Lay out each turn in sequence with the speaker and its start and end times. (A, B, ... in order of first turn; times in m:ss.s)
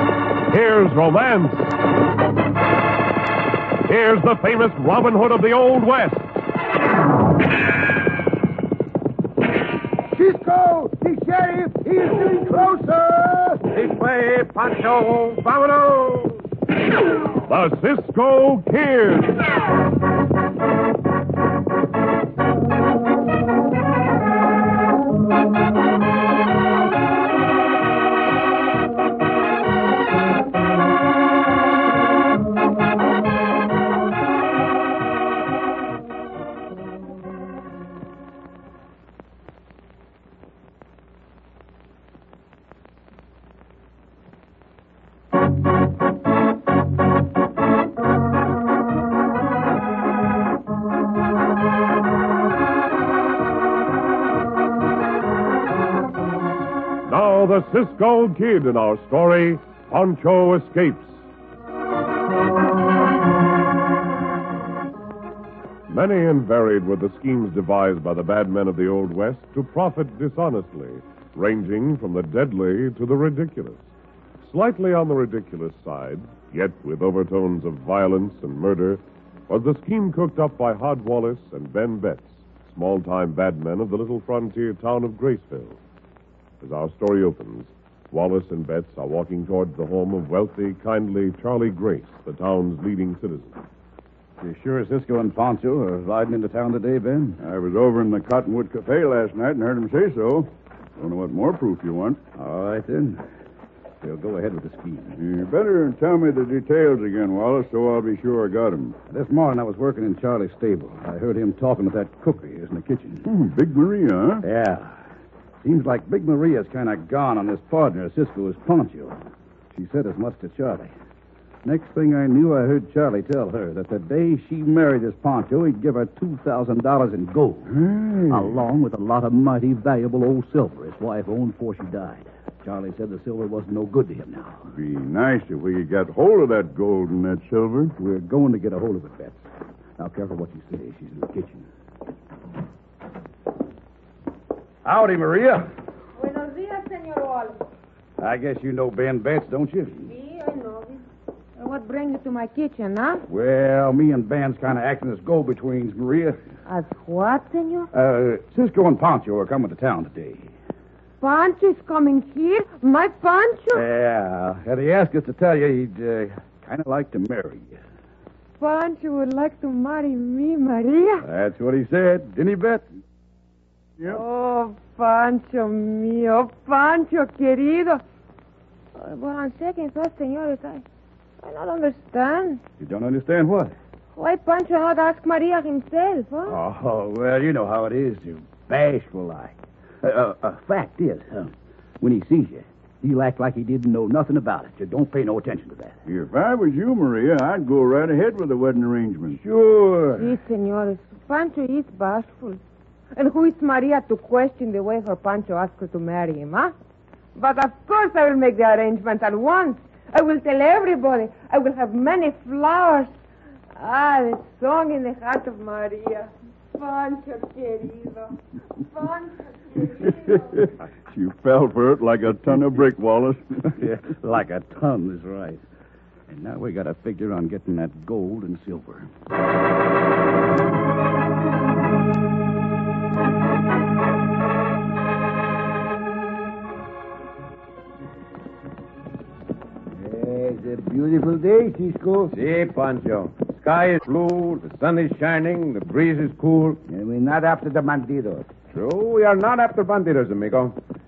0:00.5-0:01.7 A
0:03.8-0:06.3 A
0:10.1-0:13.7 B
0:13.7-0:16.4 C
0:17.4-0:19.4 A
0:57.0-1:01.2 A
1:05.9-1:13.8 A
1:14.4-1:25.8 A
1:26.6-1:33.5 A
1:34.4-1:37.4 D
1:37.4-1:42.2 E
1:42.4-1:43.2 D
1:44.0-1:45.2 D
1:45.1-1:49.0 E
1:49.0-1:53.3 D
1:53.2-1:54.4 E
1:54.4-1:55.0 D
1:55.6-1:59.2 D
1:59.7-2:00.9 D
2:01.6-2:07.7 D
2:07.7-2:08.6 E
2:08.3-2:14.6 D
2:14.7-2:17.9 E
2:18.0-2:19.4 D
2:20.0-2:21.6 D
2:24.8-2:25.7 D
2:26.2-2:27.6 F
2:28.2-2:30.1 D
2:30.0-2:31.0 F
2:31.6-2:33.2 F
2:33.3-2:36.4 D
2:36.6-2:37.9 F
2:37.9-2:40.5 D
2:41.2-2:43.8 F
2:43.7-2:47.8 D
2:48.6-2:51.2 F
2:51.2-2:52.9 D
2:54.1-2:58.0 F
2:59.0-3:00.8 F
3:01.4-3:02.6 F
3:02.8-3:03.7 D
3:04.2-3:06.6 F
3:06.4-3:16.0 D
3:16.0-3:19.4 E
3:19.4-3:20.2 D
3:20.2-3:22.6 F
3:23.1-3:26.7 F
3:27.3-3:33.1 F
3:33.7-3:40.5 F
3:40.1-3:43.6 E
3:43.7-3:45.6 D
3:46.3-3:49.1 D
3:59.9-4:02.3 B
4:02.3-4:06.8 C
4:06.9-4:08.5 B
4:08.7-4:10.8 C